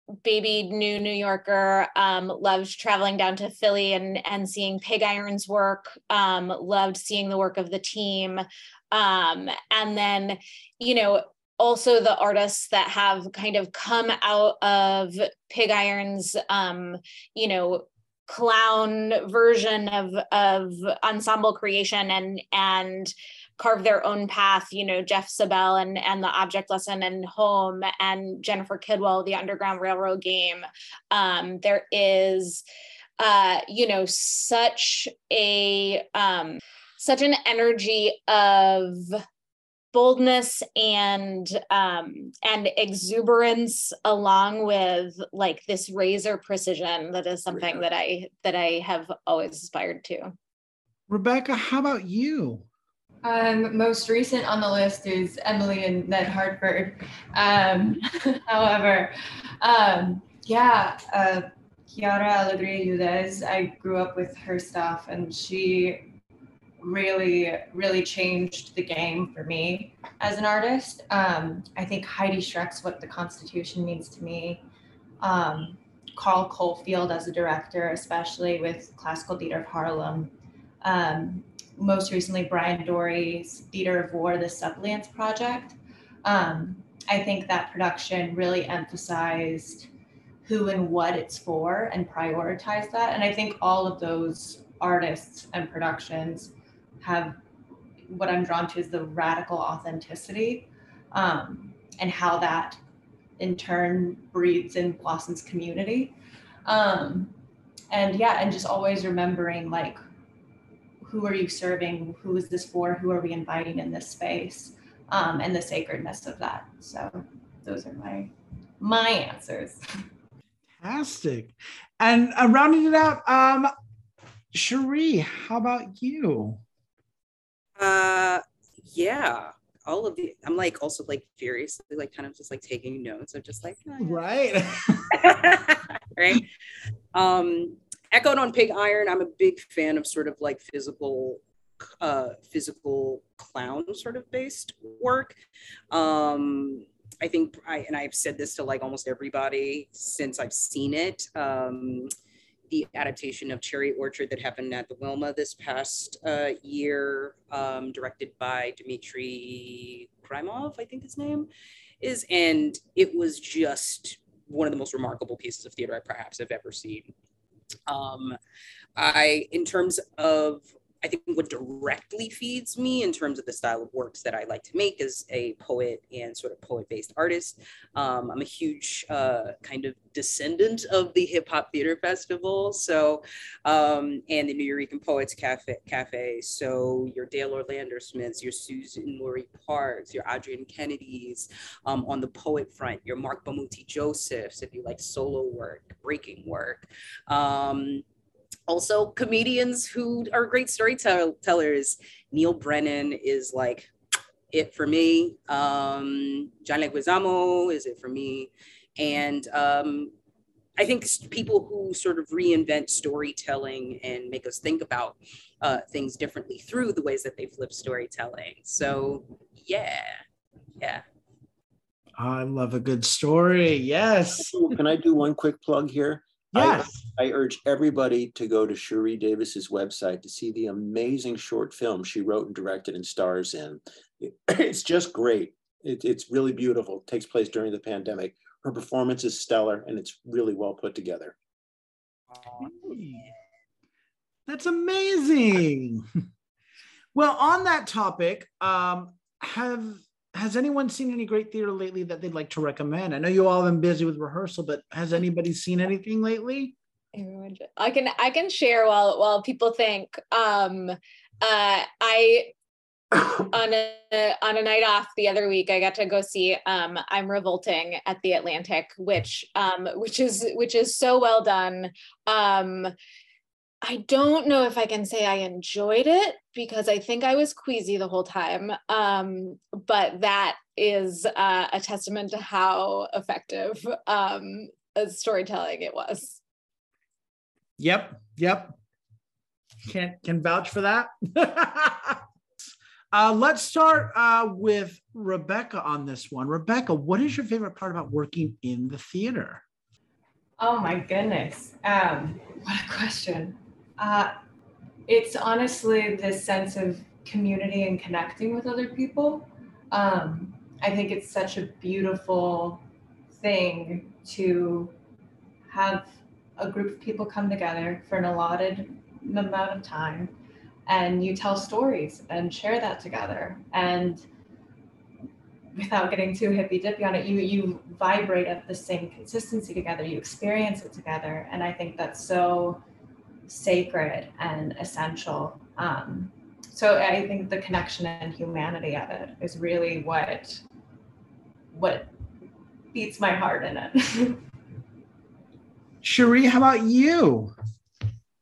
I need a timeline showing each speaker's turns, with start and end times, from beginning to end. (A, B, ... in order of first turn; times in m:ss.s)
0:00.2-0:32.6 A
0:33.2-0:39.2 A
0:39.9-0:50.3 A
0:47.5-0:47.8 B
0:51.1-0:52.6 C
0:53.2-1:06.1 D
1:06.8-1:14.6 D
1:15.2-1:20.3 D
1:20.8-1:29.9 D
1:30.4-1:37.4 D
1:38.1-1:42.8 D
1:43.4-1:47.3 D
1:47.9-1:50.0 D
1:51.0-1:59.8 D
2:00.8-2:03.7 C
2:04.5-2:06.6 C
2:07.8-2:14.2 E
2:14.0-2:15.2 C
2:15.1-2:16.5 E
2:17.1-2:21.4 E
2:22.0-2:25.4 E
2:25.9-2:32.1 E
2:32.7-2:41.5 E
2:42.0-2:47.1 E
2:47.9-2:48.4 E
2:49.0-3:18.0 E
3:18.7-3:23.9 E
3:24.5-3:30.1 E
3:30.8-3:40.2 E
3:42.2-3:44.7 C
3:44.4-4:01.3 B
3:46.5-3:47.1 C
4:02.3-4:03.3 E
4:02.6-4:03.3 C
4:04.5-4:06.0 C
4:07.1-4:16.7 C
4:17.1-4:22.5 A
4:23.3-4:32.9 A
4:33.8-4:46.4 A
4:47.8-4:48.8 C
4:49.8-4:59.6 C
5:00.6-5:04.3 D
5:05.1-5:14.9 D
5:15.7-5:20.3 D
5:20.8-5:24.2 D
5:25.7-5:32.8 D
5:33.5-5:40.6 D
5:41.7-5:42.1 D
5:42.9-5:44.4 D
5:46.0-5:47.5 C